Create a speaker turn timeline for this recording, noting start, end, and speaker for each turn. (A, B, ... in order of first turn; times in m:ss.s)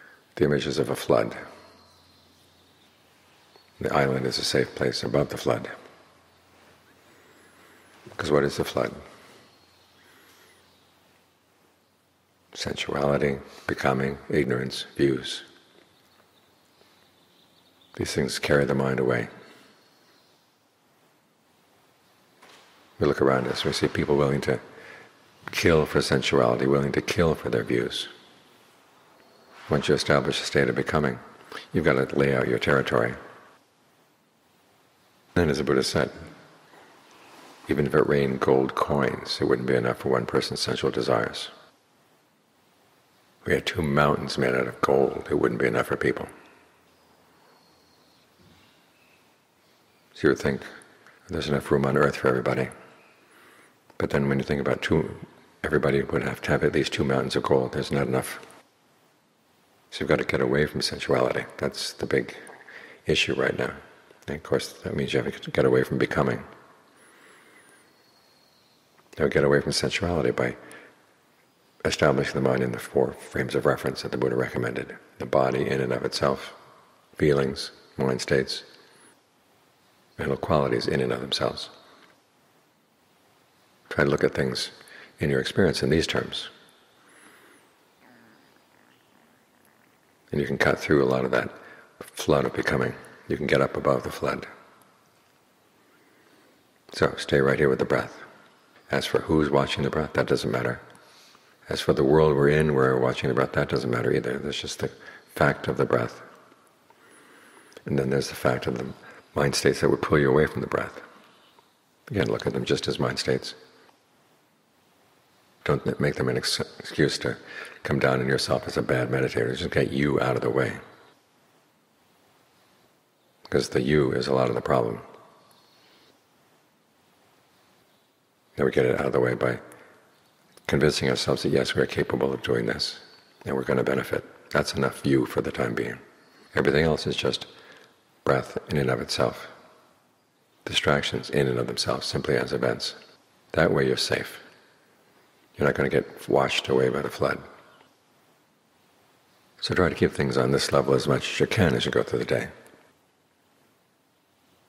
0:00.4-0:01.4 A
0:03.8-0:05.7 A
0:08.1-0:09.0 A
0:12.5-0:15.5 A
0:18.0-0:19.3 A
0:23.0-0:24.6 A
0:25.5-0:28.1 A
0:29.7-0:31.2 A
0:31.7-0:33.2 A
0:35.4-0:36.1 A
0:37.7-0:41.5 A
0:43.4-0:46.3 A
0:50.2-0:50.6 A
0:51.3-0:52.7 A
0:54.0-0:58.4 A
0:59.9-1:02.4 A
1:03.0-1:06.4 A
1:09.2-1:10.6 A
1:11.8-1:16.6 A
1:17.2-1:18.7 A
1:20.2-1:21.7 A
1:23.9-1:26.5 A
1:30.3-1:34.5 A
1:36.9-1:38.2 A
1:38.9-1:40.8 A
1:41.7-1:46.2 A
1:47.8-1:51.0 A
1:52.1-1:53.6 A
1:55.6-2:00.8 A
2:03.5-2:05.0 A
2:08.6-2:09.6 A
2:10.7-2:16.0 A
2:16.5-2:17.5 A
2:18.2-2:19.5 A
2:20.6-2:23.0 A
2:23.5-2:24.4 A
2:25.6-2:27.4 A
2:29.6-2:32.5 A